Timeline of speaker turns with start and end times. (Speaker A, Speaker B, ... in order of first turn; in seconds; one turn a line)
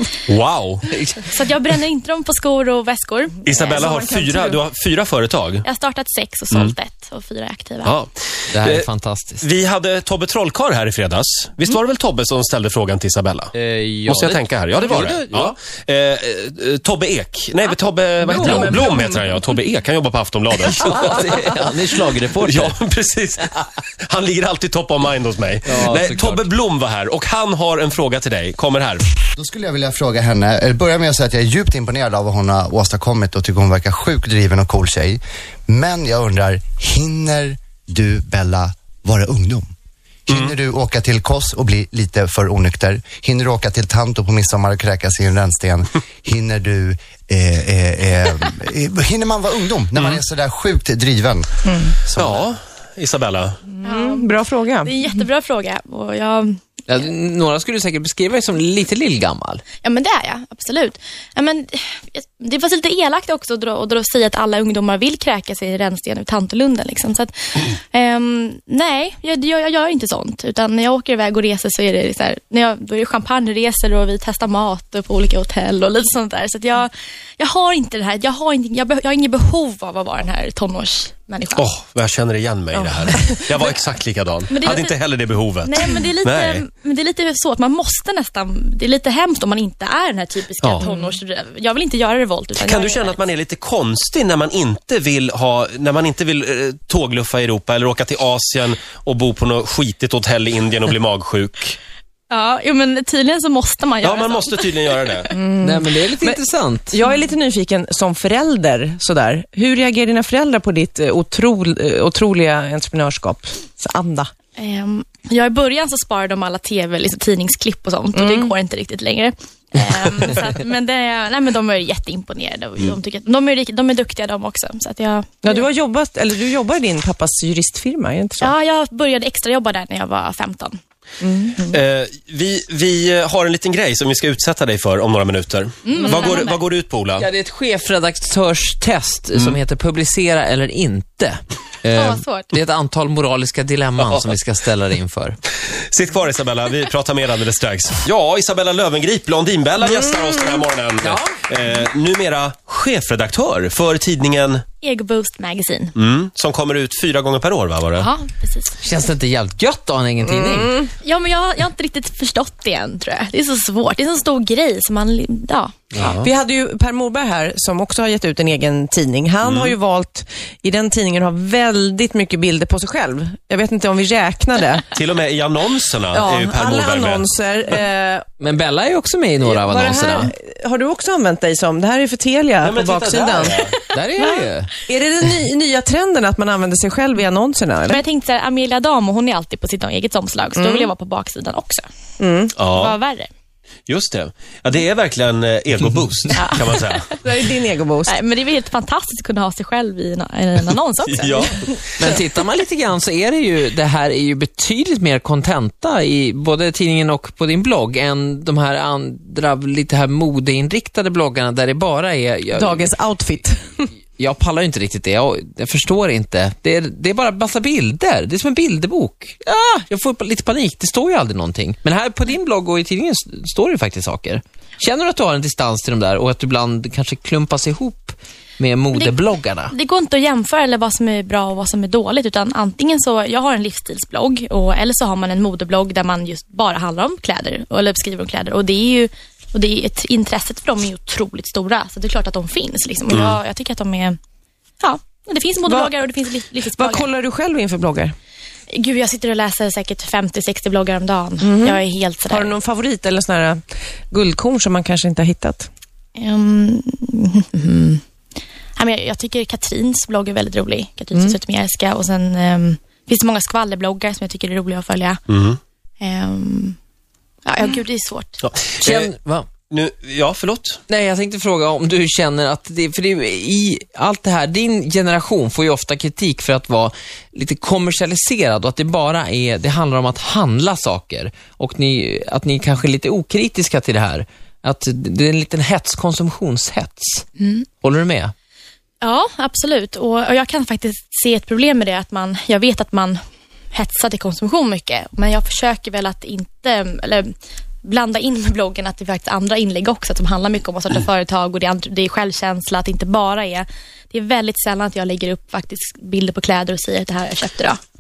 Speaker A: 0.3-0.8
Speaker B: 0.9-1.2
Speaker C: 1.2-3.9
Speaker A: 3.5-5.7
Speaker D: 3.5-4.6
Speaker C: 5.6-8.0
Speaker A: 7.8-8.9
Speaker B: 8.5-9.4
Speaker A: 9.4-13.5
Speaker B: 13.6-15.6
Speaker A: 14.1-21.5
Speaker B: 18.2-19.1
Speaker B: 20.7-22.8
Speaker A: 22.4-29.1
Speaker B: 25.6-26.5
Speaker E: 29.3-39.7
Speaker E: 40.3-52.4
Speaker A: 40.3-40.5
Speaker D: 51.7-52.0
Speaker A: 52.2-53.6
Speaker D: 53.8-55.0
Speaker C: 53.8-56.6
Speaker B: 56.9-59.6
Speaker C: 59.8-81.7
Speaker A: 81.6-86.7
Speaker D: 82.7-83.7
Speaker C: 84.5-85.0
Speaker C: 85.6-93.2
Speaker D: 90.8-91.1
Speaker A: 92.6-101.8
Speaker C: 102.3-105.3
Speaker A: 104.0-105.3
Speaker D: 105.4-114.3
Speaker B: 105.6-107.0
Speaker C: 114.6-125.6
Speaker D: 118.2-118.5
Speaker D: 125.4-128.5
Speaker C: 128.4-130.8
Speaker D: 131.2-131.6
Speaker A: 131.7-137.3
Speaker C: 135.8-136.6
Speaker B: 137.2-145.4
Speaker C: 141.9-142.6
Speaker A: 145.8-154.6
Speaker B: 151.0-151.3
Speaker C: 154.8-155.9
Speaker A: 156.0-158.1
Speaker C: 157.9-158.9
Speaker B: 158.8-160.8
Speaker C: 161.0-165.8
Speaker A: 165.9-166.3
Speaker D: 166.0-174.9
Speaker A: 169.4-169.8
Speaker A: 174.9-177.3
Speaker D: 176.1-178.3
Speaker B: 178.4-180.3
Speaker D: 179.4-183.7
Speaker A: 182.6-183.7
Speaker B: 183.9-184.8
Speaker D: 184.2-188.0
Speaker C: 187.9-191.8
Speaker D: 190.6-190.9
Speaker D: 192.2-192.6
Speaker A: 192.6-193.0
Speaker C: 192.7-193.3
Speaker A: 193.9-197.1
Speaker C: 196.4-197.0
Speaker D: 197.1-198.2
Speaker C: 198.1-201.8
Speaker A: 201.1-201.5
Speaker B: 202.0-212.9
Speaker D: 212.5-213.8
Speaker B: 214.2-229.7
Speaker C: 229.7-244.2
Speaker A: 243.1-243.4
Speaker C: 244.8-247.1
Speaker D: 245.7-245.9
Speaker D: 246.7-248.2
Speaker C: 248.7-252.5
Speaker D: 251.4-255.7
Speaker C: 256.2-258.0
Speaker C: 258.8-265.2
Speaker A: 265.3-265.6
Speaker C: 266.0-266.8
Speaker C: 267.4-268.4
Speaker A: 268.4-269.1
Speaker B: 268.8-269.5
Speaker A: 269.7-270.8
Speaker B: 270.9-287.3
Speaker C: 287.4-287.7
Speaker B: 287.8-288.3
Speaker C: 289.0-293.2
Speaker C: 293.7-307.8